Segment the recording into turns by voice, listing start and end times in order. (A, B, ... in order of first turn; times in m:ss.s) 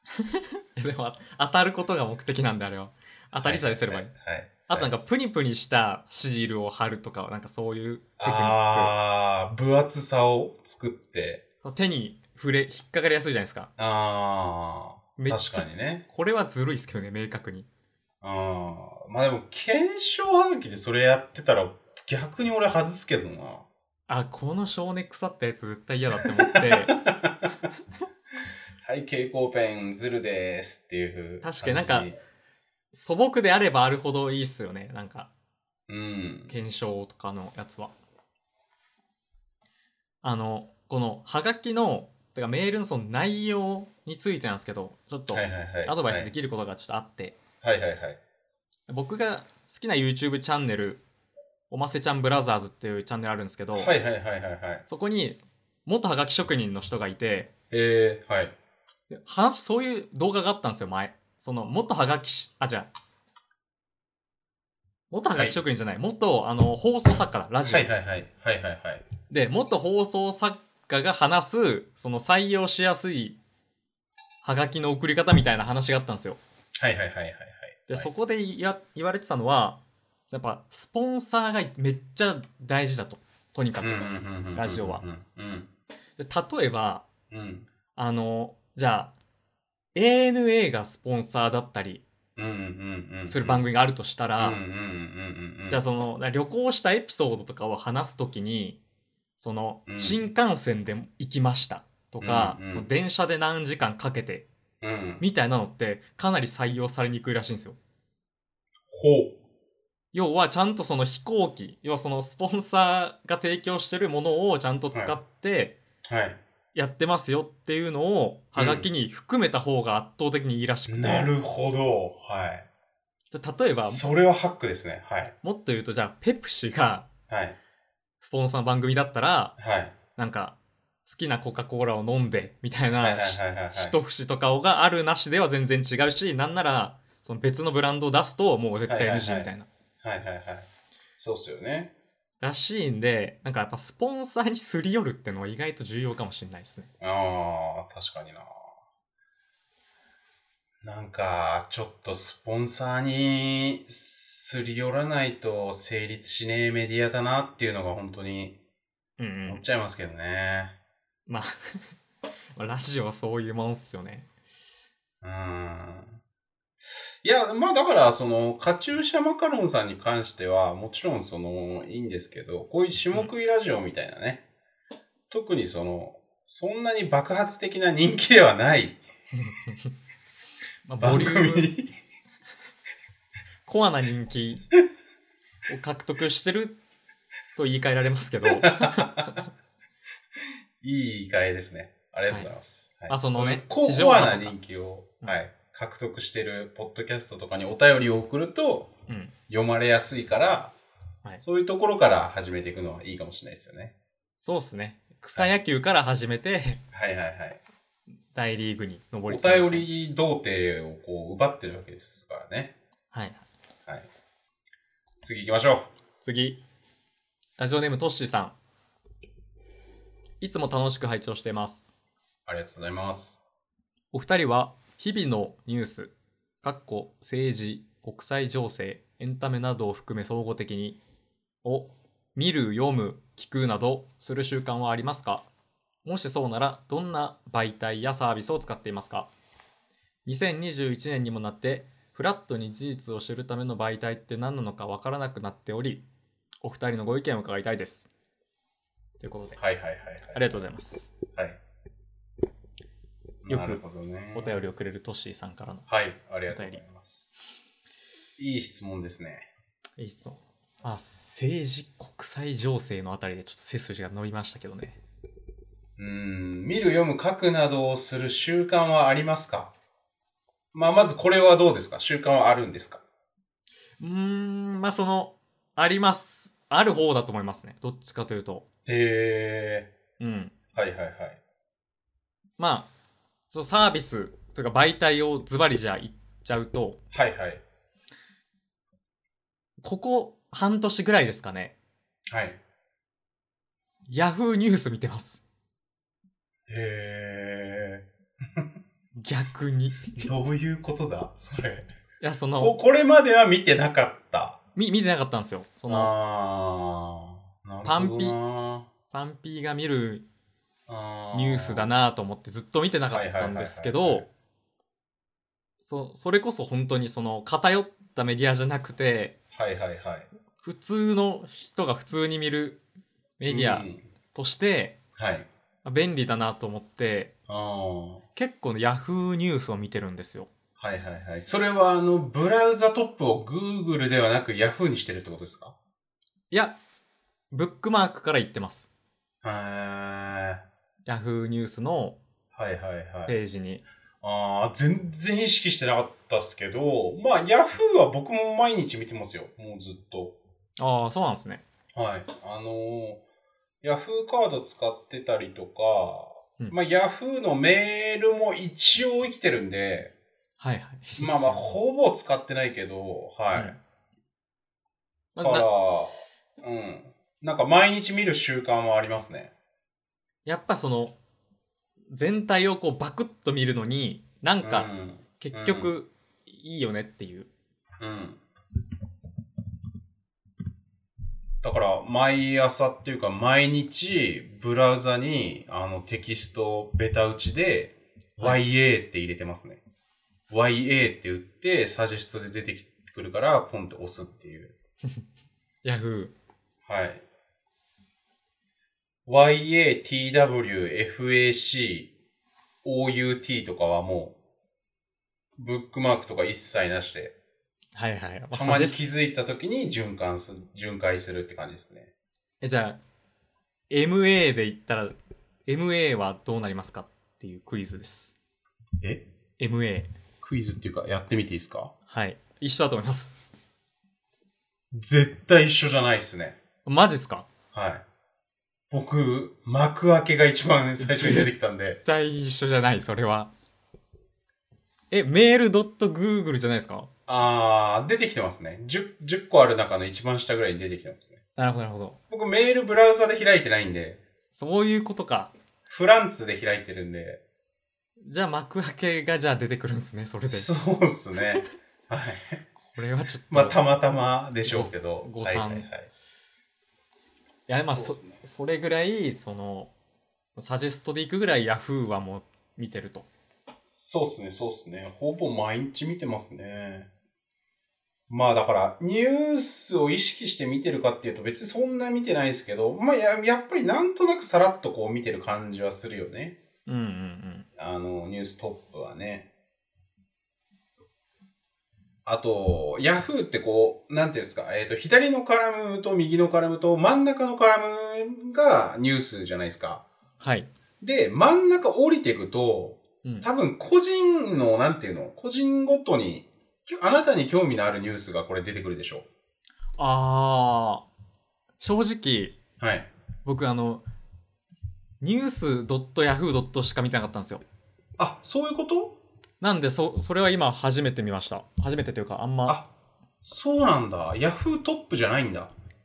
0:00.2-0:04.1 A
0:03.4-0:04.9 B
0:04.7-0:08.9 A
0:08.2-0:11.4 B
0:11.6-0:13.7 A
0:13.8-0:16.0 B
0:15.2-0:17.7 A
0:18.2-0:23.6 B
0:24.1-0:27.0 A
0:26.2-0:27.4 B
0:28.8-0:32.2 B
0:31.4-0:32.1 A
0:32.9-0:35.3 A
0:35.9-0:36.5 B
0:36.5-0:37.9 A
0:40.2-0:47.4 A
0:45.3-0:46.3 B
0:47.6-0:48.2 B
0:48.9-0:51.0 A
0:51.7-0:53.9 A
0:53.8-0:54.8 B
0:54.8-0:57.5 A
0:57.7-0:58.5 B
0:59.1-1:02.9 A
1:05.1-1:07.9 A
1:07.6-1:09.0 B
1:09.3-1:13.4 A
1:14.4-1:16.4 A
1:16.8-1:18.1 B
1:17.9-1:25.0 A
1:23.8-1:25.7 B
1:26.2-1:27.1 A
1:27.3-1:27.7 B
1:27.9-1:29.1 A
1:29.9-1:32.0 A
1:32.4-1:33.6 B
1:33.3-1:34.6 A
1:34.4-1:35.8 B
1:35.7-1:38.8 A
1:39.4-1:44.4 A
1:39.9-1:40.2 B
1:42.2-1:42.9 B
1:44.8-1:45.2 B
1:45.2-1:47.8 A
1:48.9-1:49.4 B
1:50.1-1:55.8 A
1:56.0-1:56.4 B
1:56.7-2:01.3 A
1:58.6-1:58.9 B
2:00.9-2:02.6 B
2:03.3-2:04.0 A
2:03.8-2:05.3 B
2:05.4-2:07.1 A
2:07.3-2:07.6 B
2:08.2-2:09.5 A
2:09.6-2:10.0 B
2:10.2-2:19.7 A
2:13.0-2:14.0 B
2:18.9-2:19.5 B
2:20.0-2:21.9 B
2:22.4-2:26.9 A
2:27.0-2:28.6 B
2:30.8-2:38.6 B
2:39.2-2:39.6 A
2:39.4-2:40.8 B
2:42.6-2:44.3 A
2:45.2-2:46.2 B
2:47.2-2:54.4 B
2:55.3-2:59.0 B
2:59.3-2:59.9 A
3:00.8-3:01.7 A
3:01.0-3:01.9 B
3:03.6-3:04.6 A
3:05.7-3:06.8 A
3:07.6-3:09.5 A
3:08.5-3:09.3 B
3:10.8-3:18.9 B
3:13.1-3:14.5 A
3:19.1-3:19.3 A
3:19.5-3:20.7 B
3:21.4-3:23.9 B
3:24.4-3:26.8 A
3:26.9-3:27.6 B
3:28.3-3:29.8 A
3:29.3-3:32.7 B
3:33.1-3:33.4 A
3:35.2-3:35.9 B
3:36.2-3:36.6 A
3:37.6-3:38.5 A
3:40.4-3:41.9 A
3:42.5-3:43.4 B
3:44.1-3:51.0 A
3:51.6-3:55.5 A
3:56.0-3:59.3 A
4:00.2-4:06.0 A
4:06.6-4:08.1 A
4:09.2-4:09.6 A
4:09.6-4:10.6 B
4:10.3-4:11.1 A
4:11.3-4:11.6 B
4:13.4-4:14.6 B
4:13.5-4:13.8 A
4:14.3-4:15.9 A
4:15.9-4:17.3 B
4:16.5-4:16.8 A
4:18.4-4:19.5 B
4:20.0-4:25.0 A
4:26.0-4:29.7 B
4:30.7-4:33.0 B
4:34.0-4:38.6 A
4:38.8-4:39.9 B
4:40.2-4:40.5 A
4:40.7-4:41.4 B
4:42.6-4:42.9 A
4:43.5-4:47.0 A
4:47.1-4:47.6 B
4:49.8-4:51.7 A
4:52.3-4:52.6 B
4:54.1-4:55.4 A
4:56.7-4:58.0 B
4:59.2-5:00.3 A
5:00.2-5:01.9 B
5:02.2-5:02.8 A
5:02.6-5:04.6 B
5:04.7-5:06.1 A
5:05.9-5:08.9 B
5:07.8-5:08.4 A
5:09.1-5:10.2 A
5:10.9-5:11.9 B
5:11.3-5:14.2 A
5:13.1-5:14.3 B
5:15.8-5:19.3 A
5:19.5-5:20.3 B
5:20.6-5:22.8 A
5:23.4-5:25.0 A
5:23.5-5:24.0 B
5:25.2-5:25.5 B
5:25.8-5:27.3 A
5:27.5-5:28.2 B
5:28.4-5:30.5 A
5:30.8-5:35.8 B
5:36.5-5:36.8 A
5:37.5-5:38.9 A
5:39.4-5:40.6 B
5:41.0-5:42.2 A
5:42.5-5:43.3 B
5:43.3-5:43.8 A
5:44.2-5:50.4 B
5:50.8-5:51.6 A
5:51.9-5:53.2 B
5:53.8-6:00.1 B
6:00.6-6:01.7 A
6:01.2-6:03.8 B
6:05.3-6:05.7 A
6:05.4-6:09.5 B
6:10.4-6:11.1 A
6:12.1-6:14.9 A
6:14.6-6:15.9 B
6:15.4-6:17.5 A
6:18.0-6:18.4 B
6:21.6-6:29.8 B
6:30.5-6:34.7 B
6:35.8-6:36.3 A
6:36.8-6:37.2 B
6:39.2-6:42.1 B
6:42.8-6:44.3 B
6:45.6-6:47.3 B
6:47.9-6:49.0 A
6:48.5-6:52.1 B
6:52.6-6:53.0 A
6:53.9-6:58.4 A
6:59.6-7:00.1 A
7:00.4-7:01.9 B
7:02.1-7:03.4 A
7:04.9-7:06.6 B
7:06.8-7:07.5 A
7:07.7-7:08.0 B
7:08.9-7:12.0 B
7:11.0-7:11.5 A
7:12.0-7:13.5 A
7:15.1-7:17.1 A
7:17.3-7:21.4 B
7:21.6-7:22.2 A
7:22.3-7:24.2 B
7:24.5-7:25.5 A
7:25.9-7:27.4 B
7:28.2-7:30.7 A
7:30.5-7:32.6 B
7:32.8-7:33.8 A
7:33.5-7:36.1 B
7:34.6-7:35.9 A
7:37.7-7:39.9 A
7:37.8-7:38.4 B
7:40.6-7:43.3 A
7:43.8-7:47.1 B
7:48.3-7:56.6 B
7:56.8-7:57.7 A
7:57.8-7:59.5 B
8:02.2-8:10.0 B
8:10.4-8:10.7 A
8:11.0-8:19.3 B
8:20.0-8:21.1 A
8:21.8-8:22.6 A
8:22.8-8:23.1 B
8:23.4-8:24.0 A
8:25.2-8:27.6 A
8:28.2-8:29.2 B
8:29.6-8:32.8 A
8:33.4-8:35.7 B